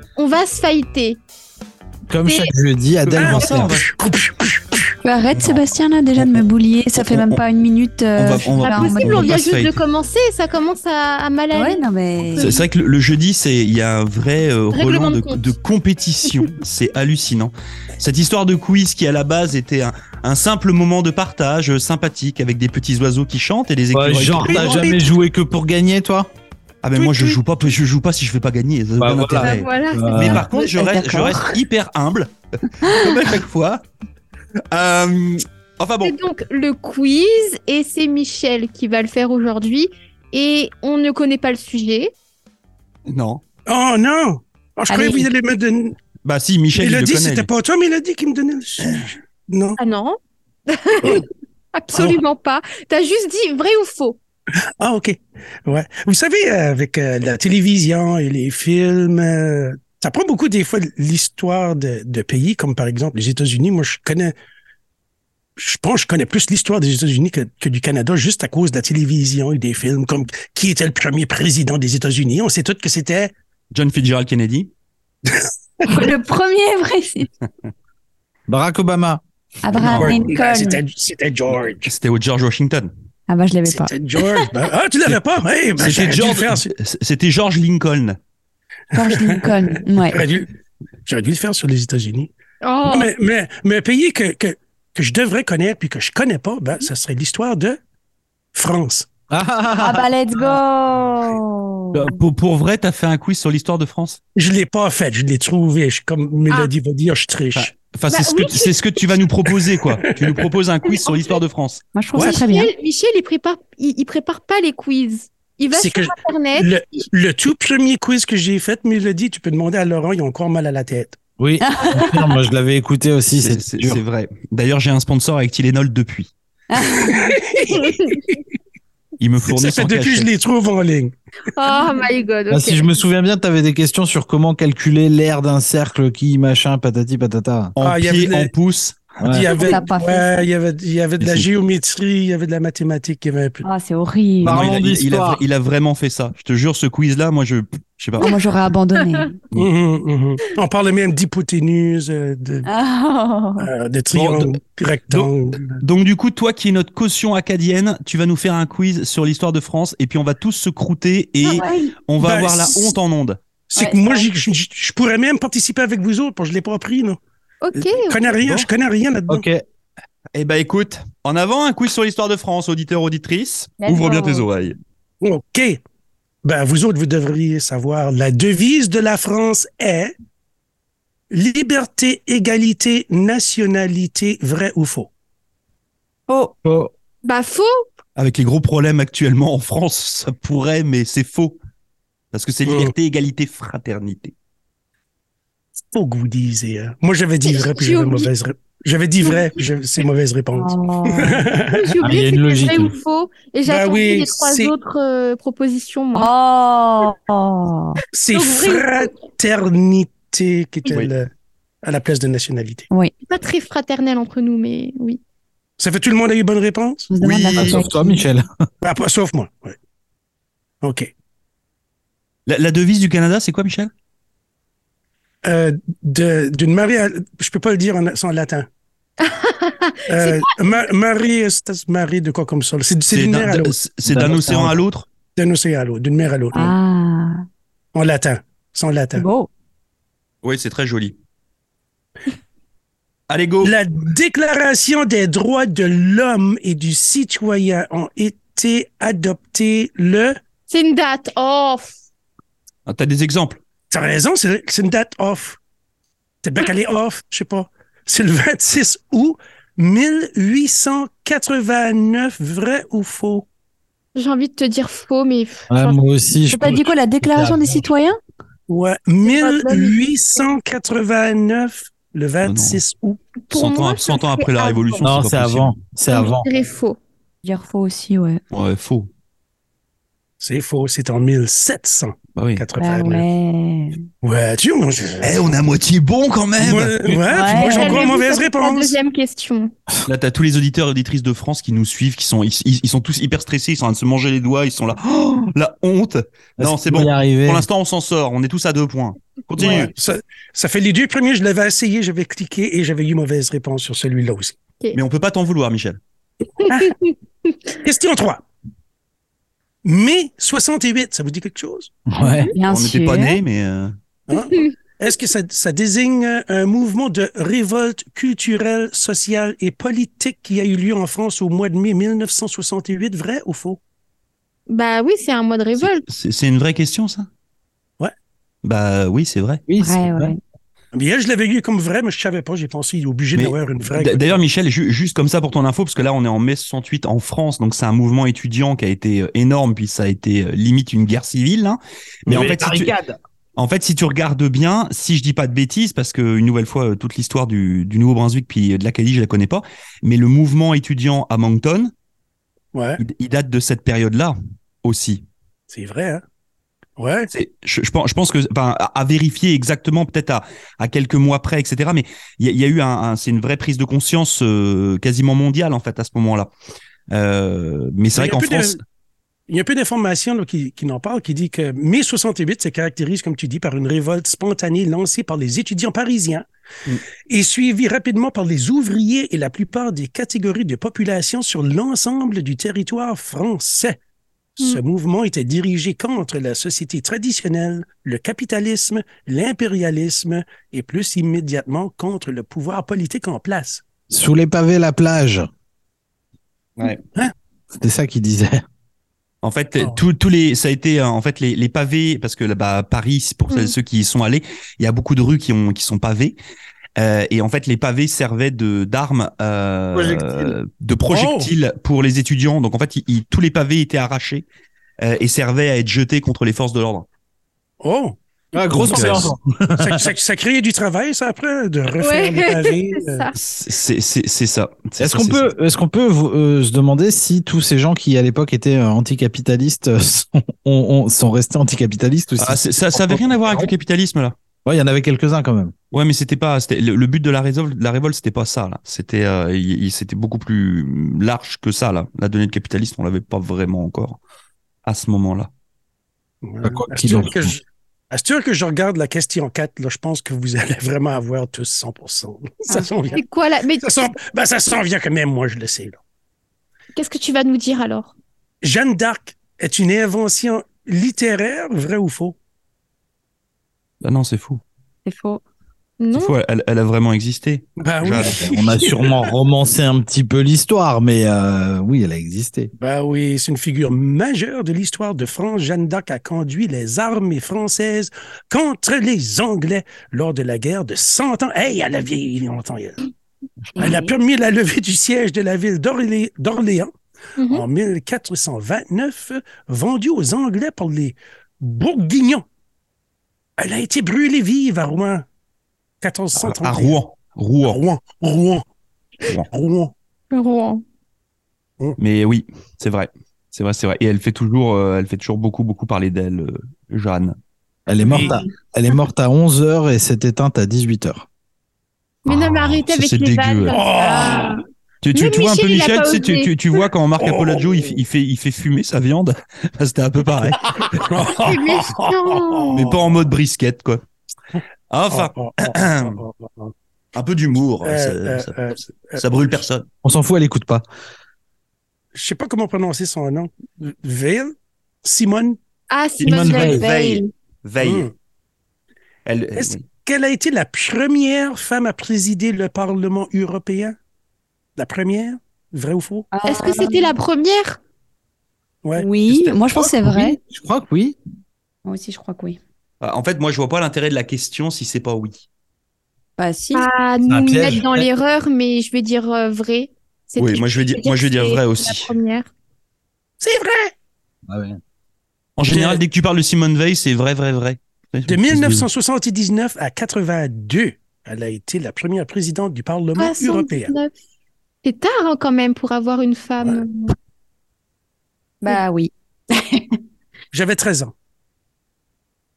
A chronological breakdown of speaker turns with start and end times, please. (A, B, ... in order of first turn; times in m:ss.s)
0:00.2-0:01.2 A
0:02.1-0:03.8 B
0:02.2-0:02.5 A
0:03.0-0:03.9 C
0:03.1-0:04.9 D
0:05.0-0:09.4 E
0:05.4-0:05.6 C
0:07.0-0:07.4 C
0:08.2-0:09.8 C
0:08.6-0:12.6 A
0:11.5-0:12.6 E
0:12.4-0:24.8 C
0:14.7-0:15.5 A
0:23.9-0:26.3 B
0:24.4-0:25.1 D
0:26.8-0:33.8 C
0:27.0-0:27.4 D
0:29.0-0:30.4 B
0:29.4-0:30.4 A
0:30.2-0:31.6 E
0:34.7-0:36.2 C
0:36.0-0:42.1 A
0:43.1-0:43.4 C
0:43.7-0:46.0 D
0:44.9-0:45.3 E
0:46.2-0:47.5 C
0:46.8-0:49.8 D
0:49.8-0:54.2 A
0:51.9-0:52.2 D
0:54.8-1:04.3 D
1:05.6-1:13.3 D
1:13.7-1:14.7 C
1:15.3-1:16.1 D
1:15.8-1:17.3 E
1:18.5-1:19.2 B
1:19.6-1:20.8 E
1:19.8-1:20.3 C
1:19.8-1:21.9 D
1:21.8-1:22.9 C
1:23.3-1:24.5 E
1:23.7-1:26.7 D
1:25.8-1:28.2 C
1:28.9-1:30.2 E
1:29.0-1:30.5 D
1:31.0-1:32.3 D
1:32.6-1:33.1 A
1:32.9-1:37.8 D
1:38.5-1:39.1 D
1:39.3-1:40.1 B
1:39.8-1:42.2 E
1:41.9-1:44.2 C
1:44.4-1:47.7 D
1:47.5-1:51.8 C
1:48.1-1:48.8 A
1:49.6-1:50.5 D
1:50.9-1:51.3 A
1:51.9-1:52.7 E
1:52.1-1:56.7 A
1:55.7-2:01.2 D
2:01.4-2:04.0 B
2:01.6-2:02.4 E
2:03.4-2:06.3 C
2:06.7-2:07.3 E
2:07.0-2:08.4 D
2:07.7-2:08.2 A
2:09.2-2:10.3 C
2:09.5-2:11.1 D
2:11.6-2:12.9 A
2:12.5-2:17.7 B
2:17.8-2:19.2 C
2:17.8-2:18.5 D
2:19.2-2:19.5 B
2:19.2-2:23.7 D
2:19.6-2:20.4 E
2:21.2-2:21.5 C
2:23.6-2:24.7 E
2:24.4-2:25.4 B
2:24.4-2:28.3 C
2:28.2-2:29.4 E
2:29.6-2:32.7 D
2:32.6-2:33.7 E
2:33.6-2:35.8 D
2:34.1-2:34.6 C
2:35.1-2:43.4 C
2:41.5-2:41.9 E
2:42.2-2:43.0 D
2:43.7-2:47.2 D
2:43.8-2:44.3 E
2:47.6-2:48.4 A
2:47.8-2:49.5 D
2:49.3-2:49.6 B
2:50.3-2:54.8 C
2:53.8-2:54.5 E
2:55.2-2:55.8 D
2:56.4-3:00.1 D
3:01.3-3:05.1 D
3:06.3-3:06.5 E
3:06.6-3:06.9 B
3:07.2-3:07.8 A
3:08.2-3:11.6 C
3:12.3-3:14.3 C
3:12.7-3:12.9 D
3:15.9-3:21.9 D
3:17.5-3:18.3 A
3:19.2-3:19.6 A
3:20.6-3:21.4 E
3:21.7-3:26.3 A
3:22.0-3:22.9 B
3:23.6-3:24.7 D
3:26.1-3:28.0 E
3:28.1-3:31.3 D
3:28.3-3:29.2 A
3:31.8-3:32.9 D
3:33.2-3:35.2 A
3:35.8-3:37.1 D
3:37.1-3:38.2 E
3:37.2-3:37.8 C
3:37.5-3:38.5 B
3:38.8-3:39.8 D
3:40.8-3:41.1 D
3:42.5-3:43.9 C
3:45.4-3:48.7 D
3:49.2-3:50.5 A
3:50.1-3:53.8 D
3:53.1-3:55.1 C
3:54.0-3:54.8 B
3:55.4-3:56.8 D
3:56.5-3:57.4 E
3:58.0-3:59.2 D
3:59.2-3:59.5 E
4:00.4-4:01.2 C
4:03.3-4:03.7 C
4:03.6-4:10.4 D
4:10.7-4:12.0 A
4:12.8-4:13.6 C
4:13.9-4:15.6 D
4:16.4-4:23.4 D
4:24.2-4:26.0 A
4:25.7-4:27.8 B
4:26.5-4:28.2 E
4:28.7-4:33.2 D
4:29.2-4:30.2 A
4:32.4-4:32.8 C
4:33.4-4:35.1 A
4:33.5-4:35.8 C
4:35.0-4:36.5 B
4:36.1-4:37.0 A
4:37.4-4:38.4 E
4:38.5-4:39.1 C
4:40.4-4:43.2 D
4:42.3-4:42.6 C
4:42.8-4:44.0 E
4:44.2-4:45.6 D
4:45.2-4:47.3 C
4:46.6-4:49.0 D
4:47.3-4:48.1 E
4:47.5-4:49.7 A
4:50.0-4:59.9 C
4:56.6-4:57.7 B
4:59.6-5:04.6 D
5:04.9-5:06.0 C
5:06.6-5:07.6 A
5:06.7-5:06.9 D
5:07.8-5:08.4 D
5:09.8-5:11.9 D
5:12.1-5:12.5 B
5:12.2-5:13.4 E
5:12.7-5:14.0 C
5:14.3-5:23.8 D
5:14.3-5:14.7 A
5:24.7-5:26.0 A
5:25.8-5:27.3 C
5:28.6-5:29.6 C
5:29.7-5:30.3 B
5:29.8-5:30.4 E
5:30.9-5:34.4 D
5:33.3-5:42.9 C
5:42.2-5:42.5 D
5:42.3-5:43.2 B
5:43.6-5:51.9 C
5:52.7-5:53.0 D
5:53.0-5:55.2 C
5:55.7-5:56.2 D
5:57.0-5:57.3 D
5:57.3-6:06.5 C
6:07.1-6:08.8 C
6:08.1-6:08.8 D
6:09.5-6:16.4 D
6:17.3-6:24.0 D
6:24.6-6:33.8 D
6:34.1-6:35.5 B
6:36.8-6:37.0 C
6:37.7-6:38.6 B
6:39.4-6:46.4 C
6:43.5-6:43.8 A
6:47.0-6:54.4 C
6:49.9-6:50.5 B
6:51.1-6:51.5 D
6:55.0-6:57.1 C
6:57.8-6:58.2 D
6:58.5-7:00.1 B
6:58.7-6:59.3 C
6:58.8-7:03.3 D
7:02.0-7:03.4 A
7:03.3-7:05.5 C
7:05.0-7:13.7 B
7:12.4-7:14.4 C
7:14.6-7:15.7 B
7:15.9-7:24.2 C
7:24.8-7:25.5 C
7:26.4-7:33.2 D
7:26.6-7:27.5 B
7:33.1-7:34.0 A
7:33.8-7:36.0 D
7:36.9-7:38.1 A
7:38.6-7:42.4 D
7:44.0-7:44.6 C
7:45.1-7:45.4 E
7:46.0-7:46.3 A
7:46.1-7:48.4 C
7:47.8-7:49.3 D
7:48.2-7:52.7 B
7:52.8-8:03.0 D
8:03.8-8:04.1 E
8:03.8-8:06.9 D
8:07.4-8:07.6 A
8:07.5-8:12.4 D
8:13.6-8:15.2 D
8:16.0-8:17.0 D
8:16.3-8:17.8 C
8:17.6-8:18.6 D
8:19.5-8:19.9 D
8:20.3-8:20.8 A
8:22.0-8:27.4 C
8:27.9-8:31.3 B
8:28.1-8:28.4 D
8:32.2-8:36.6 A
8:32.2-8:33.8 C
8:33.7-8:34.6 D
8:35.0-8:41.3 C
8:37.2-8:37.9 D
8:40.8-8:43.0 D
8:41.4-8:42.9 A
8:42.7-8:44.0 C
8:44.9-8:46.2 C
8:45.1-8:46.7 D
8:47.1-8:48.6 C
8:47.8-8:49.6 D
8:49.1-8:49.8 C
8:50.0-8:50.9 B
8:52.1-8:55.6 D
8:55.9-8:57.3 A
8:56.2-8:58.1 C
8:56.2-8:56.9 B
8:57.8-8:58.1 D
8:59.2-8:59.8 C
8:59.6-9:04.0 D
9:04.8-9:06.3 D
9:06.3-9:07.1 E
9:06.5-9:07.8 A
9:09.0-9:10.4 E
9:09.8-9:11.2 B
9:11.8-9:12.6 E
9:13.0-9:15.4 C
9:16.4-9:16.9 E
9:16.7-9:22.5 A
9:17.3-9:18.0 B
9:20.4-9:22.1 C
9:23.4-9:23.9 D
9:24.5-9:24.8 B
9:25.6-9:28.9 C
9:25.7-9:26.0 D
9:28.3-9:33.9 D
9:33.2-9:34.1 A
9:34.8-9:37.2 A
9:38.6-9:40.0 E
9:40.5-9:41.1 D